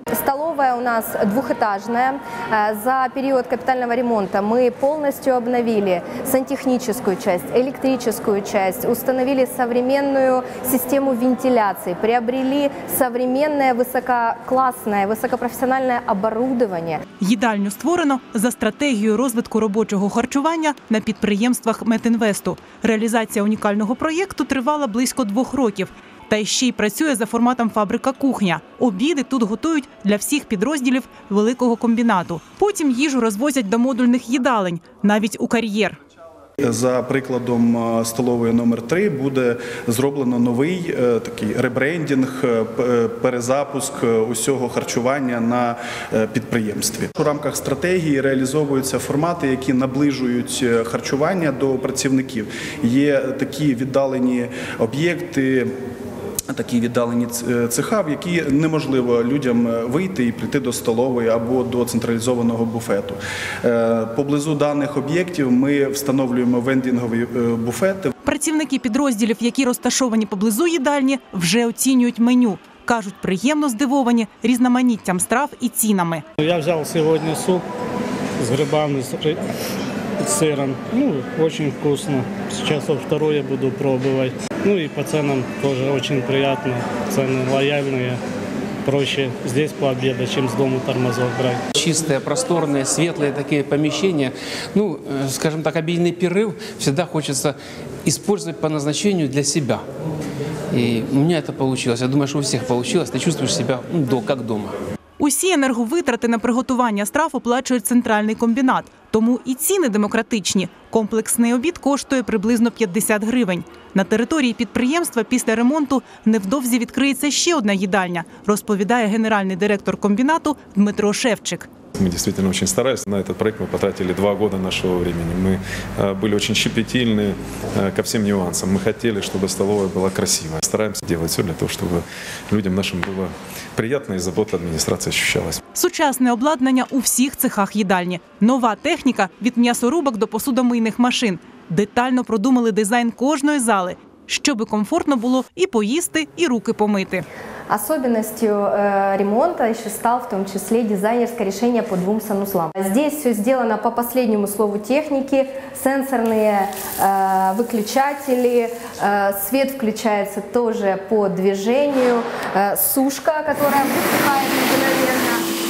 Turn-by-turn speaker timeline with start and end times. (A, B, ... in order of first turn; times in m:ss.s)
0:00.2-0:17.0 A
0:17.2-0:36.0 B
0:36.6-0:55.7 C
0:56.5-1:08.1 C
1:08.2-1:16.2 B
1:16.4-1:17.6 D
1:18.4-1:19.4 D
1:20.2-1:28.2 D
1:28.8-1:31.6 D
1:31.8-1:39.8 E
1:40.7-1:44.8 E
1:45.2-2:01.7 B
2:02.0-2:15.6 F
2:15.7-2:27.2 B
2:27.7-2:45.4 A